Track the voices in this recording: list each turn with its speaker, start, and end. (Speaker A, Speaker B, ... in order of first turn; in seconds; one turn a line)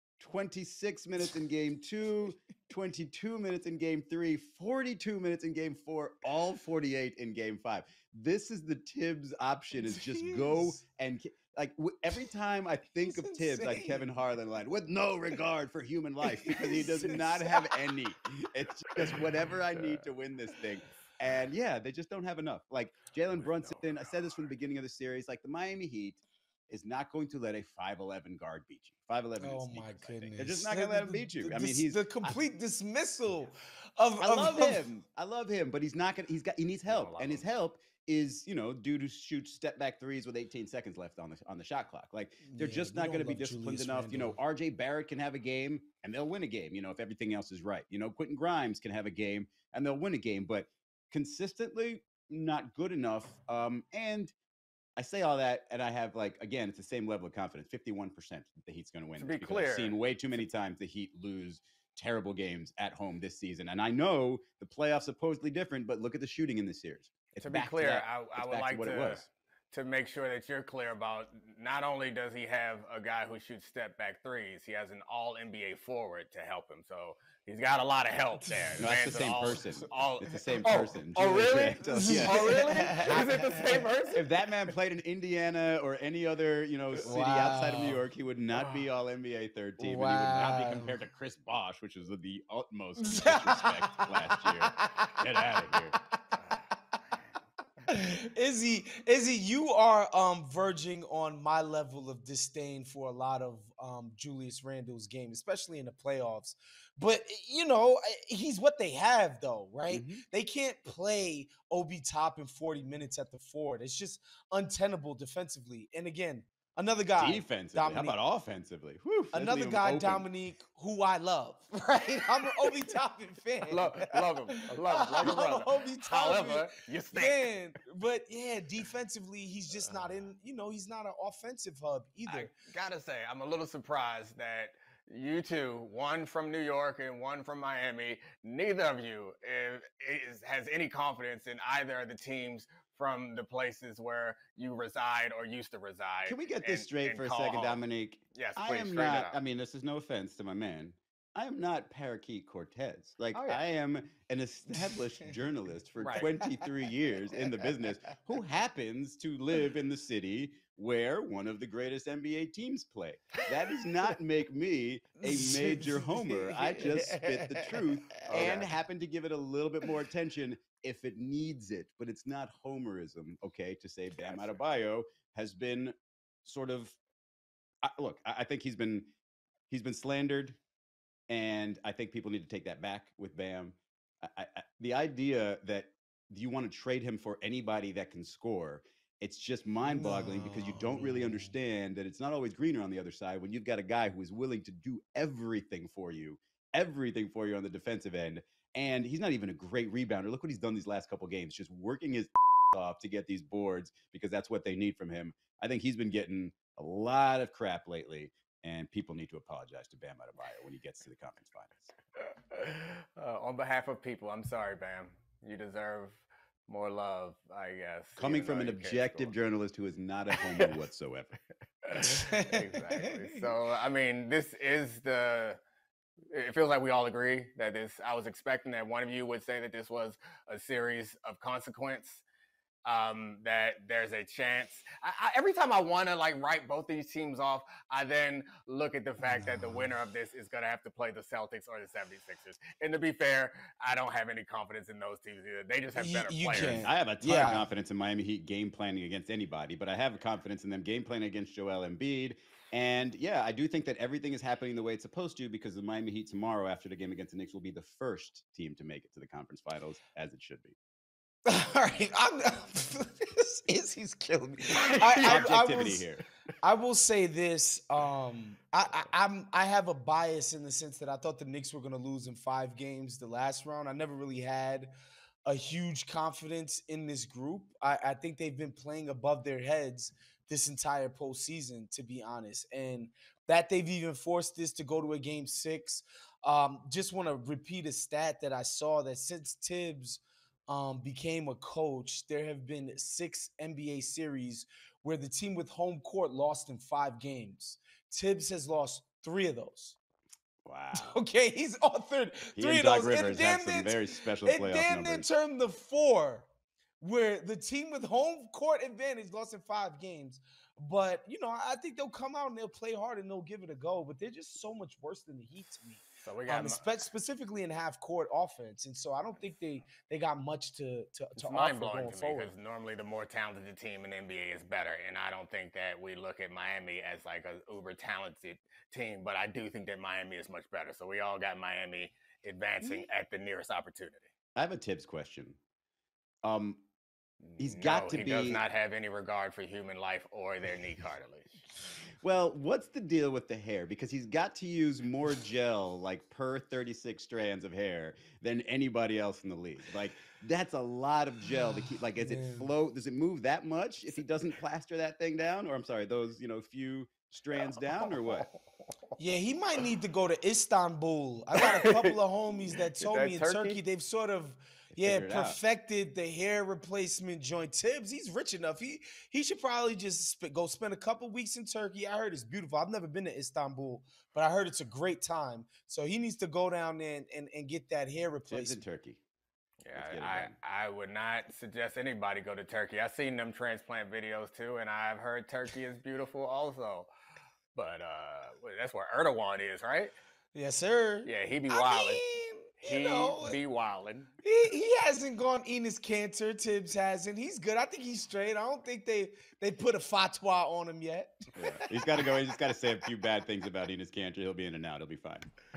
Speaker A: 0.2-32.4
Speaker B: 9.8-10.8
Speaker B: 13.1-14.0
Speaker B: 16.4-17.8
Speaker C: 23.4-23.8
Speaker B: 29.4-34.9
Speaker A: 34.2-54.3
Speaker C: 36.9-37.4
Speaker B: 42.5-44.4
Speaker A: 55.0-69.3
Speaker C: 59.2-60.0
Speaker C: 67.4-84.2
Speaker B: 78.4-78.8
Speaker A: 78.8-96.0
Speaker B: 81.9-83.8
Speaker B: 87.0-88.0
Speaker B: 89.8-91.0
Speaker B: 93.0-96.8
Speaker B: 97.9-118.2
Speaker A: 109.9-110.2
Speaker A: 117.2-120.3
Speaker B: 119.3-132.5
Speaker C: 123.7-127.5
Speaker C: 132.3-147.8
Speaker A: 146.3-177.0
Speaker C: 148.3-149.4
Speaker C: 153.3-153.6
Speaker C: 156.0-156.3
Speaker B: 165.2-168.5
Speaker C: 168.3-168.7
Speaker C: 174.2-174.6
Speaker A: 177.8-179.1
Speaker A: 179.7-180.6
Speaker A: 181.3-211.9
Speaker B: 189.9-191.5
Speaker C: 212.5-219.3
Speaker A: 218.2-221.4
Speaker C: 220.3-220.7
Speaker C: 221.8-225.6
Speaker B: 222.0-223.4
Speaker C: 226.3-232.2
Speaker C: 232.8-246.9
Speaker B: 239.3-239.7
Speaker B: 246.0-247.6
Speaker A: 246.7-260.8
Speaker B: 261.4-266.1
Speaker C: 264.7-265.5
Speaker A: 265.2-266.3
Speaker B: 266.6-274.9
Speaker B: 275.4-300.0
Speaker A: 300.6-301.2
Speaker B: 300.9-306.5
Speaker A: 302.6-305.3
Speaker B: 307.0-322.5
Speaker C: 316.2-316.8
Speaker C: 321.4-334.3
Speaker A: 334.6-335.6
Speaker A: 336.4-336.8
Speaker C: 337.5-341.6
Speaker A: 337.6-338.6
Speaker A: 342.2-358.5
Speaker B: 352.2-352.7
Speaker B: 359.2-378.8
Speaker C: 361.6-362.2
Speaker C: 362.8-363.8
Speaker A: 364.9-365.6
Speaker A: 378.5-379.2
Speaker C: 379.8-387.1
Speaker A: 379.9-380.6
Speaker C: 387.7-390.1
Speaker B: 390.5-393.6
Speaker C: 391.2-392.2
Speaker C: 392.8-394.3
Speaker B: 394.4-402.3
Speaker A: 401.6-405.5